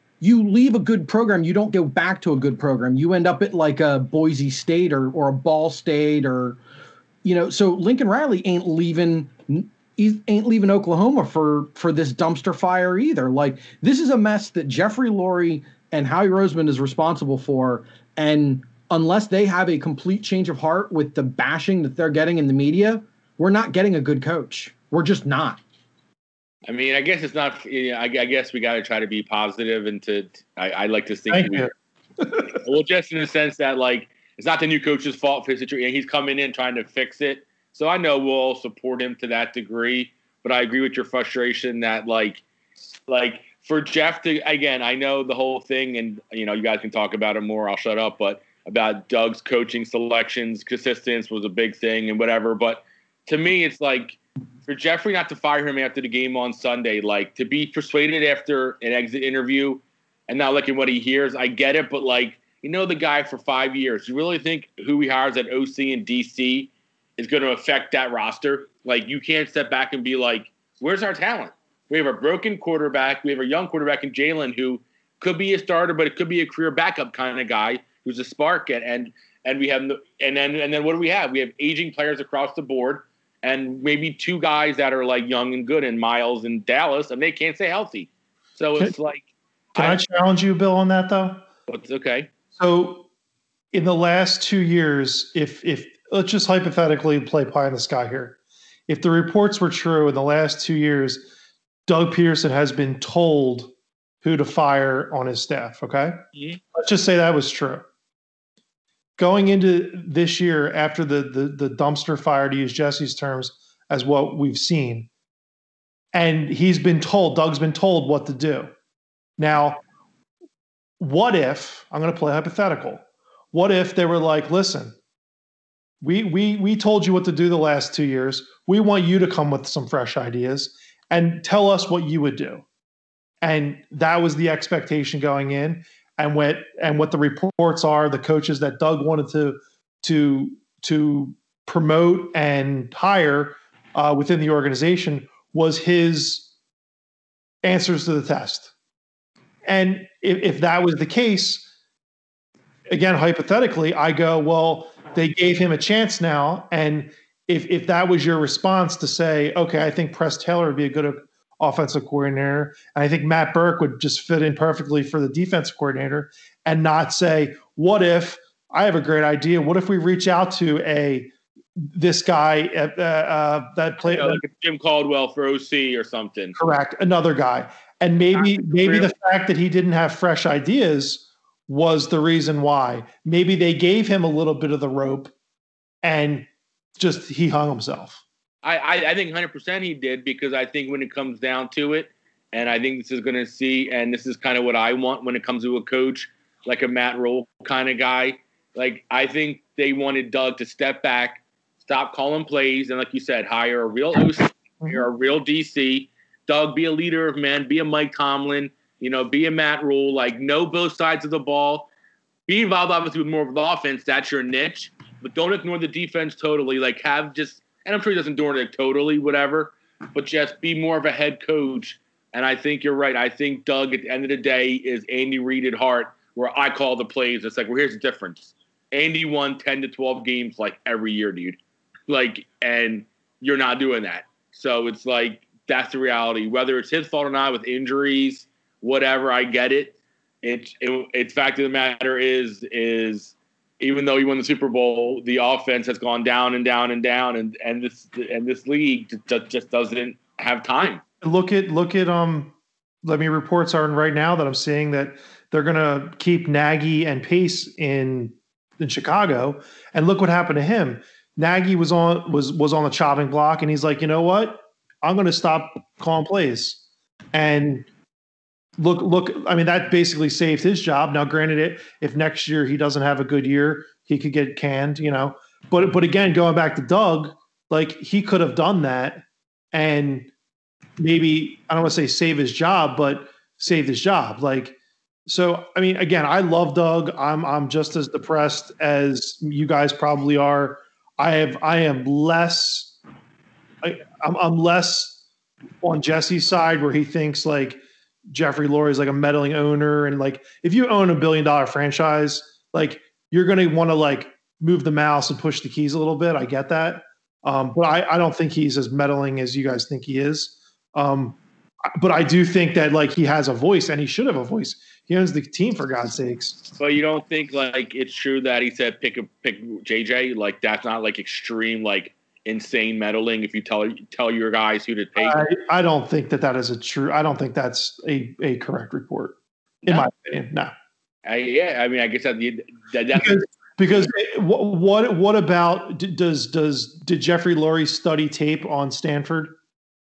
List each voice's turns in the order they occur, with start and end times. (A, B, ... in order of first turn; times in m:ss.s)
0:00.2-0:06.6 A
0:07.2-0:25.6 A
0:26.6-0:31.7 B
0:31.3-0:32.6 C
0:32.6-0:42.4 B
0:43.1-1:30.0 B
1:29.7-1:31.4 C
1:31.7-1:32.3 B
1:32.5-1:33.0 C
1:33.7-1:41.3 C
1:41.9-1:43.7 C
1:44.2-1:47.8 C
1:49.2-1:55.1 C
1:56.1-1:58.7 C
1:59.4-1:59.8 C
2:01.0-2:05.0 C
2:06.0-2:12.6 C
2:13.4-2:26.5 C
2:27.6-2:28.7 C
2:29.6-2:31.7 C
2:32.9-2:51.3 C
2:51.8-2:54.4 C
2:54.0-2:56.6 B
2:56.5-3:05.3 C
2:58.3-2:59.1 B
3:06.0-3:08.2 C
3:08.6-3:31.9 B
3:32.5-4:11.0 B
4:11.2-4:26.8 C
4:27.3-4:27.9 C
4:28.8-4:40.3 C
4:41.0-4:44.8 C
4:45.3-4:53.0 C
4:53.8-4:55.2 C
4:55.8-5:11.4 C
5:12.0-5:16.6 C
5:16.7-5:25.4 B
5:25.2-5:30.7 C
5:31.2-5:33.5 B
5:33.1-5:39.6 C